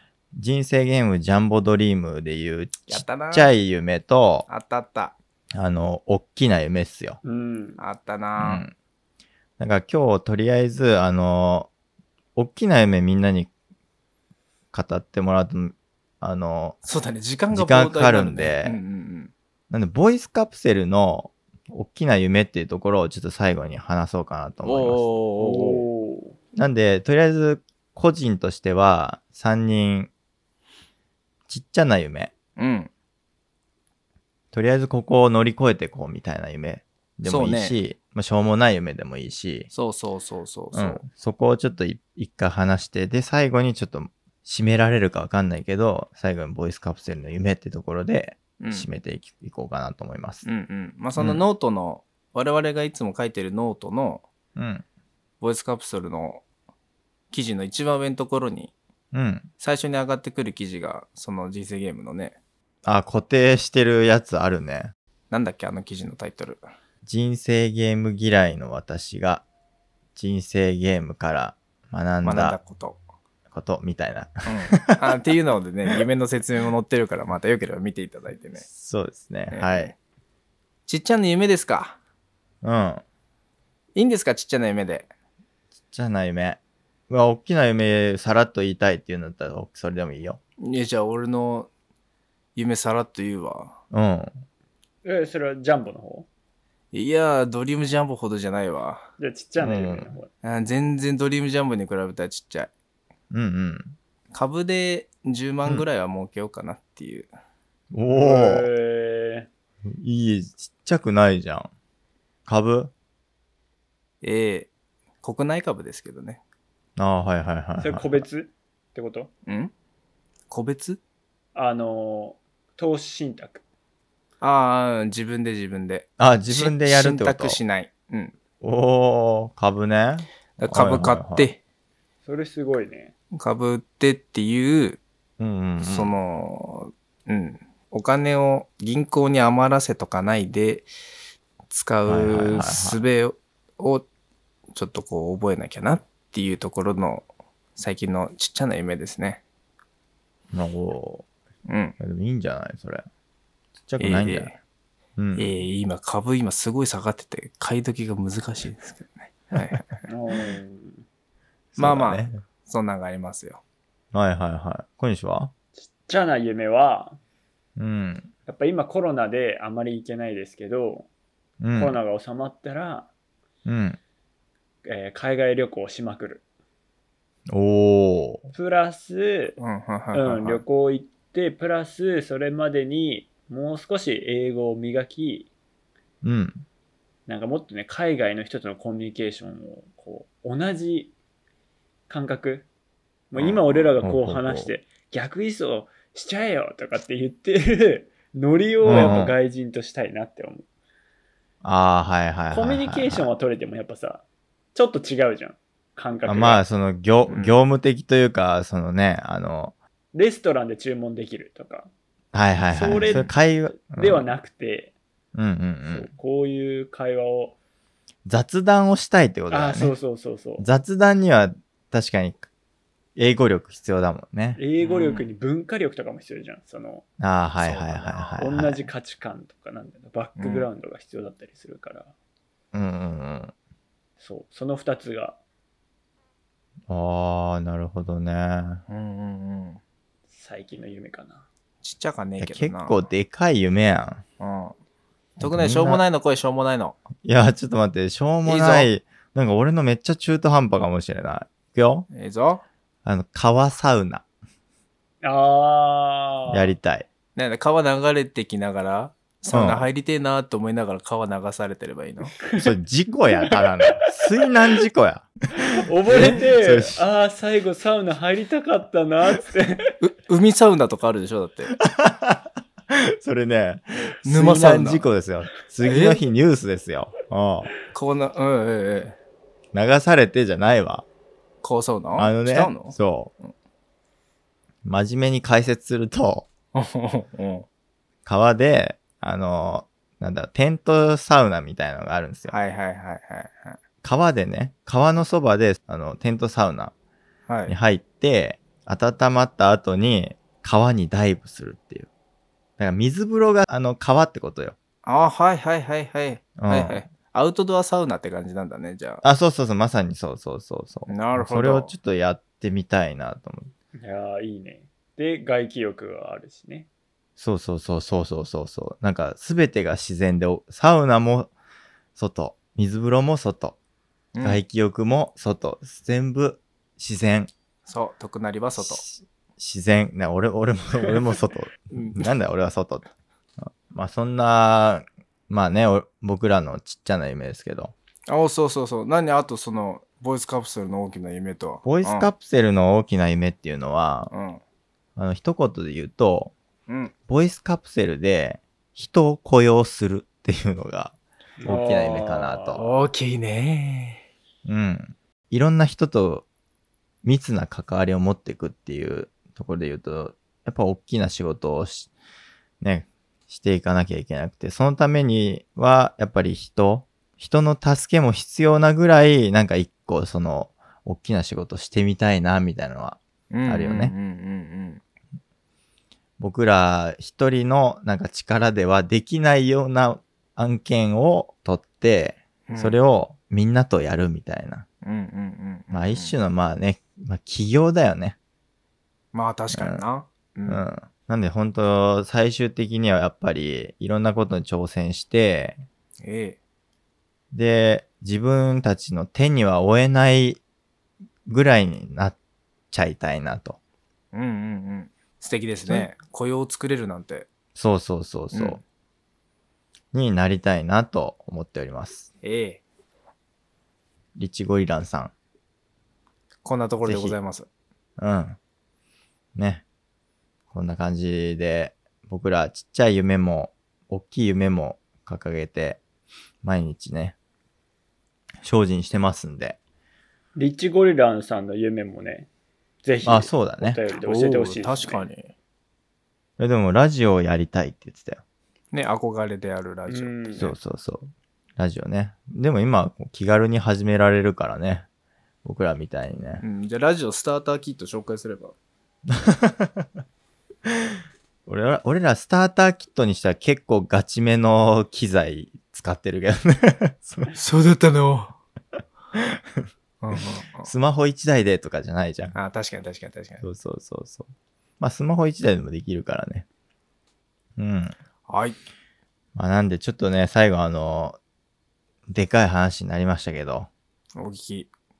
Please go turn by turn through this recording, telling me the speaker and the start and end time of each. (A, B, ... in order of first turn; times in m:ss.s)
0:00.3-0:04.4 A
0:02.9-0:03.5 B
0:04.5-0:05.2 B
0:05.5-0:07.2 A
0:07.2-0:07.8 C
0:07.8-0:08.6 B
0:08.4-0:08.7 A
0:09.6-0:11.7 A
0:12.4-0:13.5 A
0:14.7-0:16.8 A
0:16.8-0:19.3 B
0:17.5-0:18.8 A
0:19.7-0:25.0 A
0:24.6-0:25.8 B
0:25.4-0:26.4 C
0:26.6-0:30.1 A
0:31.5-0:32.3 A
0:32.6-0:32.9 B
0:34.5-0:39.7 A
0:37.2-0:37.8 B
0:39.7-0:41.0 B
0:40.7-0:50.4 A
0:48.6-0:48.9 B
0:50.4-0:54.2 B
0:51.2-0:51.4 A
0:54.6-0:54.8 A
0:55.4-0:56.4 B
0:57.3-0:58.7 B
0:59.1-0:59.5 A
0:59.6-1:02.4 B
1:02.8-1:04.9 A
1:05.3-1:06.6 B
1:07.0-1:09.4 A
1:10.2-1:12.6 A
1:12.2-1:13.0 B
1:13.5-1:15.1 A
1:14.4-1:18.6 B
1:18.7-1:19.9 A
1:19.5-1:19.9 B
1:20.9-1:22.0 B
1:22.6-1:23.0 A
1:23.9-1:25.1 B
1:25.9-1:30.4 A
1:30.6-1:31.7 B
1:32.6-1:33.8 B
1:33.9-1:34.3 A
1:35.0-1:36.3 C
1:36.9-1:39.1 B
1:39.2-1:40.3 C
1:39.6-1:40.1 A
1:40.4-1:42.7 B
1:43.3-1:43.9 A
1:44.3-1:47.3 B
1:47.9-1:48.7 A
1:48.1-1:49.5 C
1:49.8-1:51.7 A
1:52.5-1:52.9 A
1:54.2-1:54.7 B
1:55.2-1:56.4 B
1:57.0-1:58.2 A
1:57.8-1:59.3 C
1:59.4-1:59.7 B
2:00.5-2:01.0 B
2:01.5-2:03.6 C
2:04.4-2:08.4 B
2:06.2-2:07.6 A
2:08.6-2:11.5 A
2:10.6-2:11.6 B
2:12.2-2:13.1 C
2:13.3-2:15.0 B
2:15.4-2:16.1 A
2:15.8-2:20.9 B
2:21.7-2:24.0 B
2:22.0-2:23.0 A
2:24.7-2:29.4 B
2:30.5-2:31.2 A
2:31.7-2:32.0 B
2:32.0-2:33.0 A
2:33.9-2:34.5 A
2:34.0-2:34.6 B
2:35.2-2:35.5 A
2:35.4-2:40.0 B
2:40.1-2:41.0 C
2:41.7-2:42.4 A
2:41.8-2:43.6 B
2:44.1-2:45.5 A
2:45.8-2:47.2 C
2:47.8-2:48.3 A
2:48.5-2:51.1 C
2:51.6-2:52.0 A
2:51.8-2:53.1 C
2:53.6-2:54.0 A
2:54.8-2:56.4 C
2:57.5-2:58.4 A
2:58.5-2:59.6 C
2:59.6-3:00.6 B
3:00.1-3:05.5 C
3:06.2-3:06.6 A
3:07.3-3:11.1 C
3:12.1-3:12.7 C
3:13.3-3:20.6 C
3:14.0-3:14.7 A
3:18.8-3:19.3 A
3:18.9-3:19.2 B
3:21.6-3:23.3 A
3:22.5-3:24.2 C
3:24.7-3:26.6 C
3:26.2-3:29.8 A
3:27.3-3:27.5 B
3:30.1-3:31.9 C
3:32.3-3:34.2 A
3:32.7-3:34.9 C
3:35.3-3:36.1 A
3:35.9-3:37.6 C
3:38.2-3:39.9 A
3:39.5-3:40.7 C
3:40.6-3:42.4 A
3:43.2-3:44.6 A
3:44.6-3:47.0 C
3:44.8-3:45.2 B
3:47.2-3:48.9 A
3:47.6-3:48.4 B
3:48.4-3:52.1 C
3:50.4-3:50.7 B
3:52.7-3:53.5 A
3:54.2-3:55.4 C
3:56.9-3:58.8 A
3:58.9-3:59.8 B
4:00.3-4:01.4 C
4:01.8-4:03.0 B
4:02.4-4:04.2 A
4:04.4-4:04.7 B
4:05.4-4:07.0 B
4:05.4-4:06.0 A
4:07.2-4:12.1 A
4:08.4-4:08.9 B
4:12.1-4:12.6 B
4:13.0-4:14.2 A
4:15.2-4:16.7 C
4:16.5-4:17.1 A
4:17.4-4:22.4 B
4:19.5-4:19.9 A
4:22.4-4:22.7 C
4:22.6-4:25.3 A
4:23.3-4:24.3 C
4:25.5-4:29.9 C
4:26.1-4:27.0 A
4:30.0-4:31.7 B
4:31.8-4:37.7 A
4:34.2-4:35.0 B
4:35.8-4:36.2 B
4:37.9-4:39.2 B
4:39.7-4:41.0 A
4:41.6-4:43.5 B
4:42.2-4:43.3 A
4:44.8-4:46.5 A
4:46.7-4:47.6 B
4:48.2-4:52.5 A
4:52.5-4:53.8 B
4:54.0-4:56.9 A
4:57.5-4:57.7 B
4:57.7-5:02.1 A
5:02.8-5:04.8 A
5:05.0-5:09.2 B
5:06.6-5:07.0 A
5:09.2-5:13.7 A
5:11.1-5:11.9 B
5:14.0-5:16.9 C
5:17.4-5:21.5 A
5:22.2-5:23.8 A
5:24.3-5:24.6 B
5:24.4-5:27.5 A
5:27.8-5:29.0 B
5:28.8-5:33.1 A
5:31.9-5:32.2 B
5:33.6-5:37.9 A
5:38.3-5:42.3 B
5:41.8-5:44.3 A
5:44.3-5:44.6 B
5:45.2-5:46.5 A
5:46.9-5:47.1 B
5:47.3-5:52.8 A
5:51.6-5:52.8 C
5:52.7-5:54.2 B
5:54.6-5:56.4 A
5:57.2-6:02.1 A
6:02.8-6:14.1 A
6:13.5-6:15.0 B
6:16.4-6:24.9 A
6:22.7-6:23.0 B
6:25.0-6:26.4 B
6:25.9-6:28.4 A
6:29.3-6:30.8 B
6:29.7-6:30.0 A
6:30.7-6:35.8 A
6:36.2-6:36.6 B
6:37.5-6:40.6 A
6:41.4-6:42.4 A
6:42.9-6:43.8 A
6:44.3-6:47.5 B
6:47.7-6:48.8 A
6:48.5-6:48.8 B
6:50.1-6:52.3 A
6:52.4-6:52.8 B
6:54.4-6:55.3 A
6:56.6-6:57.7 B
6:57.0-6:57.4 A
6:58.2-6:58.6 A
6:59.6-6:59.8 A
7:00.7-7:06.0 A
7:06.6-7:07.4 A
7:08.6-7:09.8 A
7:10.6-7:12.5 C
7:13.0-7:15.2 C
7:13.2-7:14.0 A
7:14.2-7:15.5 B
7:16.6-7:18.4 A
7:18.9-7:20.3 B
7:20.1-7:20.7 C
7:20.6-7:25.1 A
7:25.6-7:26.6 A
7:26.6-7:28.7 B
7:29.3-7:30.1 A
7:30.8-7:37.5 A
7:37.5-7:38.5 B
7:39.3-7:39.8 A
7:40.2-7:40.9 B
7:40.8-7:42.5 A
7:42.5-7:43.6 B
7:43.6-7:44.5 A
7:45.0-7:46.6 A
7:47.8-7:48.2 A
7:48.5-7:48.8 B
7:49.5-7:51.4 A
7:52.3-7:53.9 A
7:54.4-7:54.9 B